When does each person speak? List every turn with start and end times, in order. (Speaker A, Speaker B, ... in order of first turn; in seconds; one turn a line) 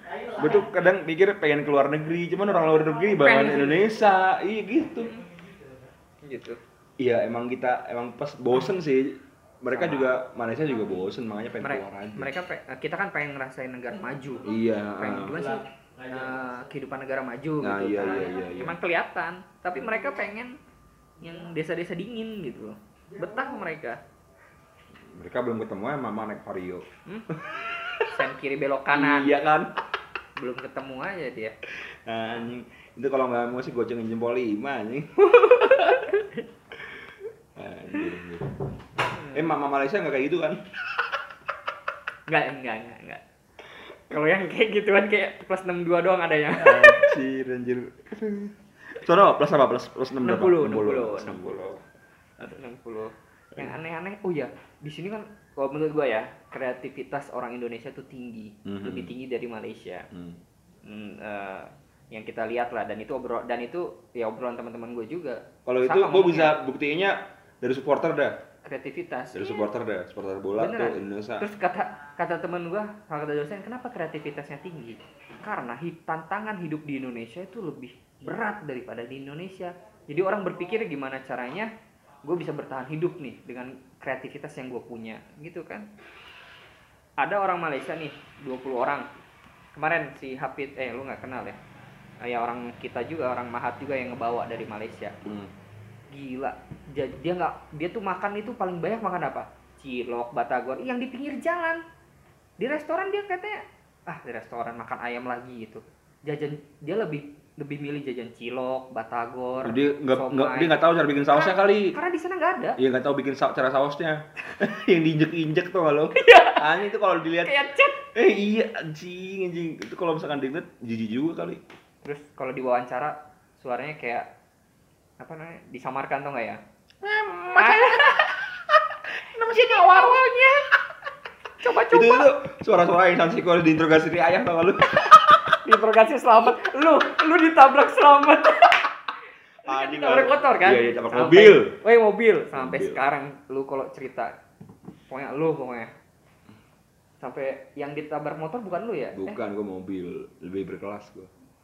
Speaker A: 0.3-5.1
Speaker B: 3.2-3.9
Speaker B: 6.2-6.6
Speaker A: 7.0-12.3
Speaker B: 9.7-10.1
Speaker B: 11.6-14.5
Speaker A: 14.4-15.6
Speaker B: 15.0-20.6
Speaker A: 17.6-18.8
Speaker B: 21.2-24.0
Speaker A: 25.1-26.9
Speaker A: 27.4-28.1
Speaker B: 28.0-29.4
Speaker A: 28.9-29.7
Speaker B: 30.4-31.6
Speaker A: 31.9-35.3
Speaker B: 35.2-36.5
Speaker A: 37.6-38.6
Speaker B: 39.1-39.5
Speaker A: 39.2-40.6
Speaker B: 42.3-43.2
Speaker B: 44.1-47.1
Speaker A: 46.6-51.8
Speaker B: 50.2-51.8
Speaker B: 52.4-60.1
Speaker A: 58.6-59.1
Speaker A: 60.1-60.4
Speaker B: 60.8-66.6
Speaker A: 65.7-68.4
Speaker B: 68.6-69.7
Speaker A: 69.3-71.5
Speaker B: 70.6-81.7
Speaker B: 82.2-85.9
Speaker B: 87.2-89.1
Speaker B: 89.7-91.6
Speaker B: 92.2-95.2
Speaker A: 95.2-95.5
Speaker B: 96.1-101.8
Speaker B: 102.6-112.8
Speaker A: 109.6-112.0
Speaker A: 112.8-117.6
Speaker B: 116.2-116.7
Speaker B: 117.4-118.0
Speaker A: 118.1-121.6
Speaker B: 122.0-124.3
Speaker B: 125.2-126.6
Speaker A: 127.0-128.4
Speaker B: 127.5-128.4
Speaker A: 129.3-130.2
Speaker B: 129.4-130.7
Speaker B: 131.6-132.3
Speaker A: 131.7-135.5
Speaker B: 135.6-139.0
Speaker A: 139.6-141.8
Speaker B: 139.7-144.3
Speaker A: 142.5-143.0
Speaker B: 145.1-145.9
Speaker B: 147.2-149.4
Speaker A: 149.2-151.3